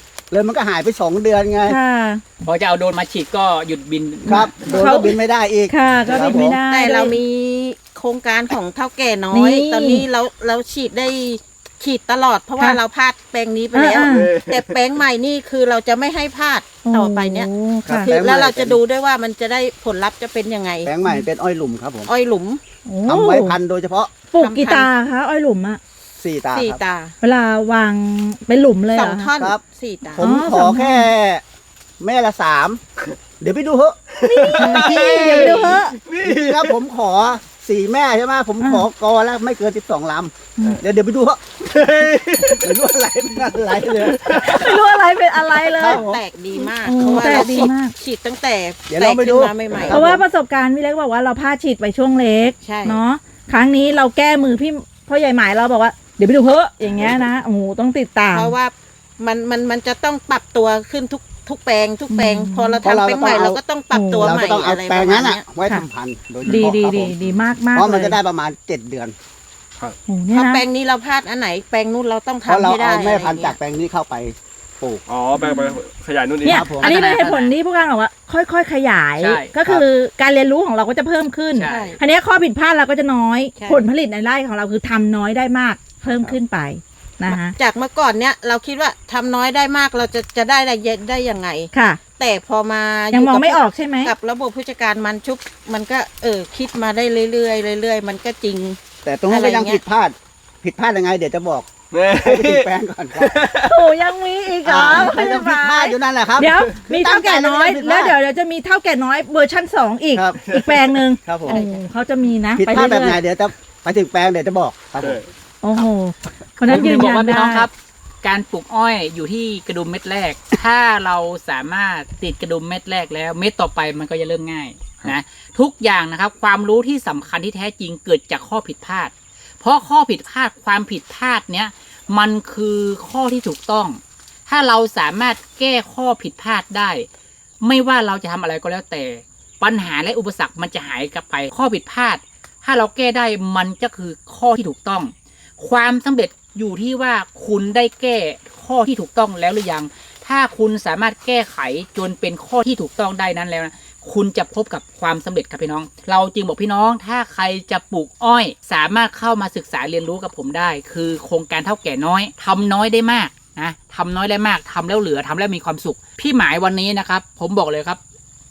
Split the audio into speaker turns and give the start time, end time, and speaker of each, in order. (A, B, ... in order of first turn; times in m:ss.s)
0:00.3-0:01.8 A
0:01.6-0:02.2 B
0:02.4-0:04.6 C
0:04.2-0:05.2 B
0:04.3-0:06.6 A
0:05.7-0:07.2 B
0:06.7-0:20.9 D
0:09.3-0:10.0 B
0:13.7-0:14.3 B
0:14.0-0:14.7 E
0:16.8-0:18.1 B
0:17.8-0:18.8 A
0:20.8-0:22.1 A
0:22.1-0:22.6 D
0:22.8-0:23.6 B
0:23.0-0:24.1 A
0:24.3-0:25.8 B
0:24.4-0:24.9 D
0:26.2-0:26.8 A
0:26.5-0:27.1 D
0:27.2-0:29.3 B
0:28.9-0:30.3 D
0:30.1-0:31.4 A
0:30.2-0:31.1 B
0:32.0-0:32.8 A
0:33.4-0:34.0 A
0:34.1-0:36.7 E
0:34.3-0:36.0 B
0:34.6-0:35.8 D
0:34.9-0:35.5 A
0:36.2-0:41.9 A
0:38.6-0:38.8 B
0:41.7-0:42.6 E
0:42.6-0:44.6 A
0:44.0-0:44.8 E
0:44.3-0:46.0 B
0:45.6-0:46.2 A
0:45.7-0:50.2 D
0:46.8-0:47.9 B
0:47.0-0:47.7 A
0:48.9-0:50.2 A
0:49.9-0:58.5 B
0:52.6-0:53.0 D
0:58.3-1:05.4 D
1:02.1-1:02.8 B
1:02.8-1:03.6 A
1:03.9-1:04.3 B
1:04.2-1:09.1 A
1:06.4-1:08.2 B
1:10.1-1:10.6 B
1:10.3-1:13.6 D
1:12.4-1:15.0 A
1:15.1-1:16.7 E
1:15.4-1:15.8 B
1:16.4-1:17.0 A
1:16.4-1:27.5 B
1:16.7-1:17.5 C
1:19.2-1:19.5 C
1:21.5-1:21.9 C
1:21.6-1:22.0 D
1:23.6-1:23.8 D
1:26.1-1:26.4 A
1:27.3-1:39.8 D
1:31.7-1:32.0 B
1:33.1-1:34.1 B
1:39.0-1:43.4 A
1:41.9-1:43.8 E
1:43.6-1:53.2 B
1:44.6-1:48.2 A
1:50.1-1:50.4 A
1:50.4-1:50.8 E
1:51.2-1:51.6 A
1:51.5-1:51.8 D
1:52.6-1:55.2 A
1:55.6-1:57.7 B
1:56.6-1:57.7 C
1:58.2-2:17.1 C
2:17.6-2:48.0 C